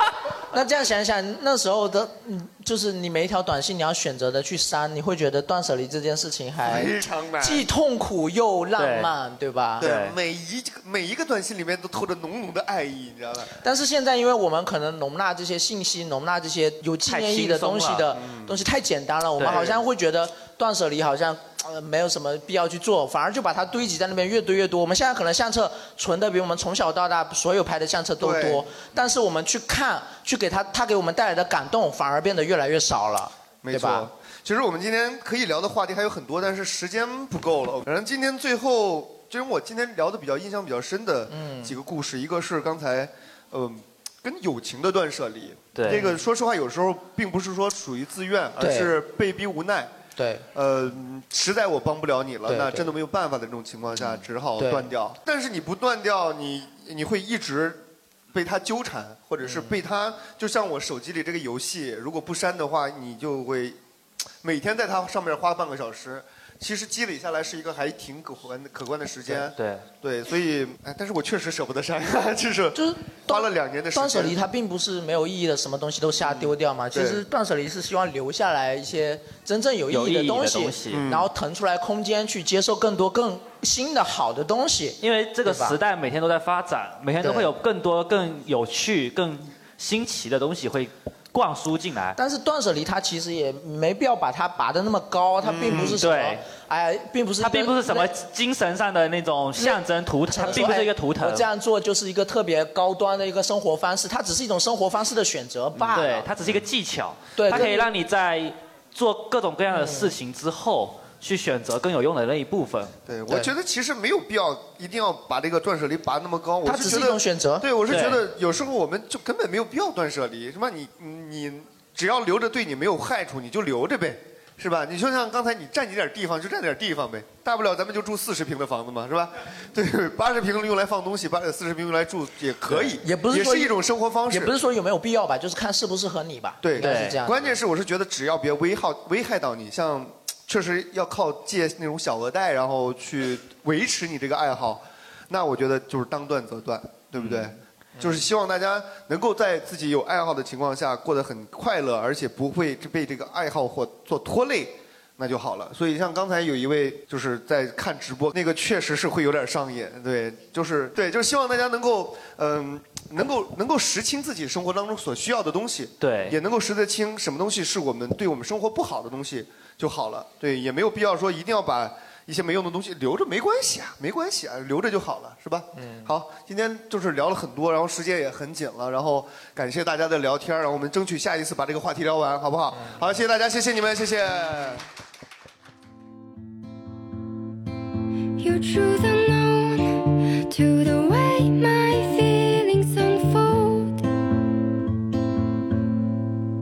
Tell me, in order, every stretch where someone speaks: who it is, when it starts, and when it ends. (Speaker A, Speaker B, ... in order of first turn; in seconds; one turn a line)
Speaker A: 0.5-9.9
Speaker B: 6.7-7.6
Speaker C: 8.8-9.1
Speaker C: 9.8-10.2
Speaker B: 9.8-13.6
Speaker A: 13.6-34.1
Speaker C: 17.1-18.1
Speaker B: 18.1-18.6
Speaker C: 19.4-19.7
Speaker B: 19.5-19.8
Speaker B: 28.2-28.6
Speaker B: 33.6-49.9
Speaker A: 41.3-41.8
Speaker C: 45.8-46.1
Speaker A: 45.9-46.1
Speaker A: 48.6-48.9
Speaker A: 50.2-50.5
Speaker B: 50.5-57.8
Speaker A: 52.5-52.9
Speaker A: 54.6-54.9
Speaker B: 58.3-63.8
Speaker A: 59.4-59.8
Speaker B: 64.4-74.4
Speaker C: 69.5-69.9
Speaker A: 72.7-85.8
Speaker B: 76.2-77.2
Speaker C: 79.9-81.0
Speaker B: 80.9-81.3
Speaker C: 85.0-92.2
Speaker A: 87.2-87.5
Speaker A: 92.2-98.1
Speaker B: 95.4-96.0
Speaker C: 95.8-96.4
Speaker C: 97.4-101.5
Speaker A: 99.6-106.3
Speaker C: 105.9-112.9
Speaker A: 107.4-107.9
Speaker A: 109.7-110.2
Speaker B: 113.1-134.5
Speaker A: 116.7-117.7
Speaker C: 117.9-118.2
Speaker A: 132.7-133.8
Speaker A: 134.3-137.5
Speaker B: 136.6-184.8
Speaker C: 136.8-137.2
Speaker C: 166.0-166.3
Speaker A: 175.8-176.1
Speaker D: 188.4-194.1